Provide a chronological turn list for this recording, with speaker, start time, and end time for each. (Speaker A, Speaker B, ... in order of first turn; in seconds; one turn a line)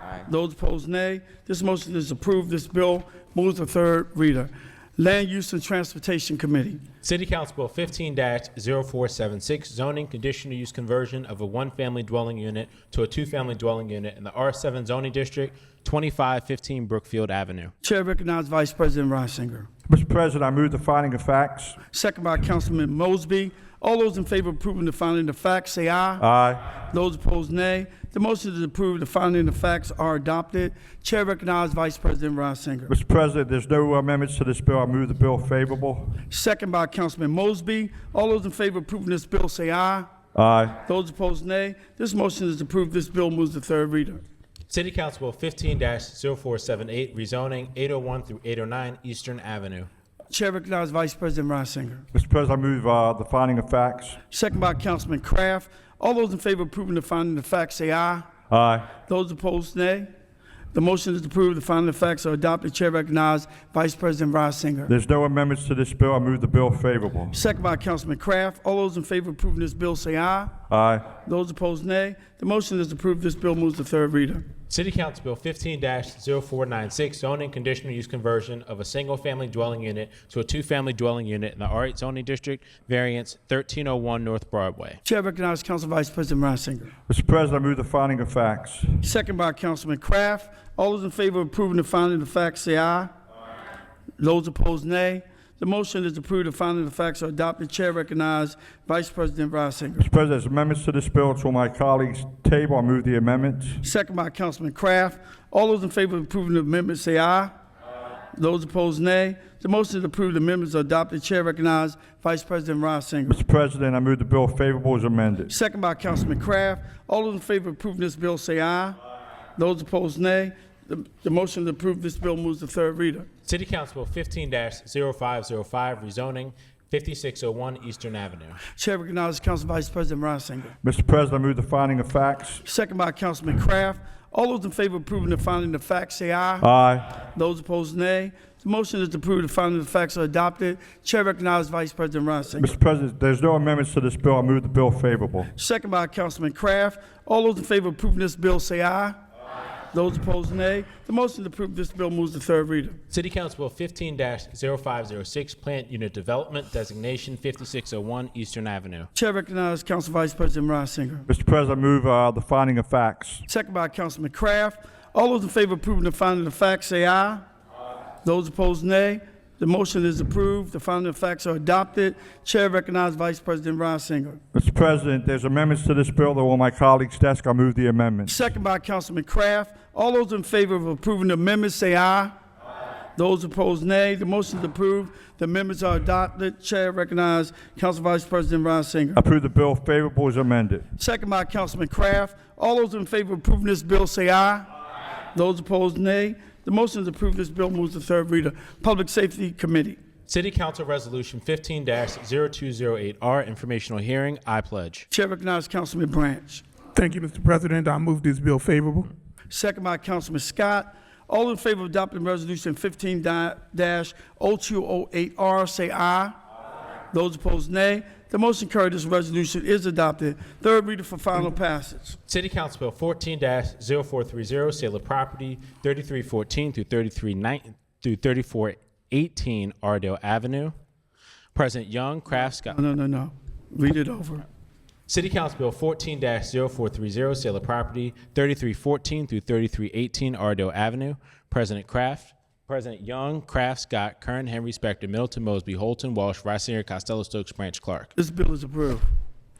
Speaker A: 0.2-6.8
Speaker B: 7.0-17.7
Speaker A: 17.8-19.7
Speaker C: 19.9-21.8
Speaker A: 21.9-26.2
Speaker C: 26.2-26.6
Speaker A: 26.9-32.9
Speaker C: 32.9-36.1
Speaker A: 36.3-40.1
Speaker C: 40.3-40.8
Speaker A: 40.8-44.2
Speaker B: 44.7-49.9
Speaker A: 50.3-52.0
Speaker C: 52.1-54.2
Speaker A: 54.3-58.3
Speaker C: 58.5-58.9
Speaker A: 59.0-60.1
Speaker A: 60.7-64.9
Speaker C: 64.9-67.3
Speaker A: 67.3-70.5
Speaker C: 70.7-71.1
Speaker A: 71.2-74.4
Speaker B: 74.7-85.0
Speaker A: 85.0-86.9
Speaker C: 87.1-89.0
Speaker A: 89.0-93.1
Speaker A: 94.2-100.0
Speaker C: 100.0-103.8
Speaker A: 103.8-107.5
Speaker A: 108.3-113.4
Speaker C: 113.3-115.5
Speaker A: 115.5-119.0
Speaker A: 119.5-123.3
Speaker B: 123.5-128.6
Speaker A: 128.7-130.7
Speaker C: 130.8-132.6
Speaker A: 132.6-136.7
Speaker C: 136.6-137.1
Speaker A: 137.3-142.7
Speaker C: 142.6-145.5
Speaker A: 145.5-149.2
Speaker A: 149.9-153.0
Speaker B: 153.1-159.1
Speaker A: 159.1-161.3
Speaker C: 161.3-163.4
Speaker A: 163.5-167.4
Speaker A: 168.2-174.4
Speaker C: 174.5-178.3
Speaker A: 178.3-182.3
Speaker A: 183.2-189.2
Speaker C: 189.2-190.8
Speaker A: 191.0-194.7
Speaker A: 195.3-200.0
Speaker B: 200.3-205.1
Speaker A: 205.1-206.6
Speaker D: 206.9-209.1
Speaker A: 209.5-216.3
Speaker A: 217.1-222.2
Speaker B: 222.3-230.7
Speaker B: 231.5-232.8
Speaker A: 232.7-234.4
Speaker B: 235.1-248.1
Speaker A: 248.2-249.0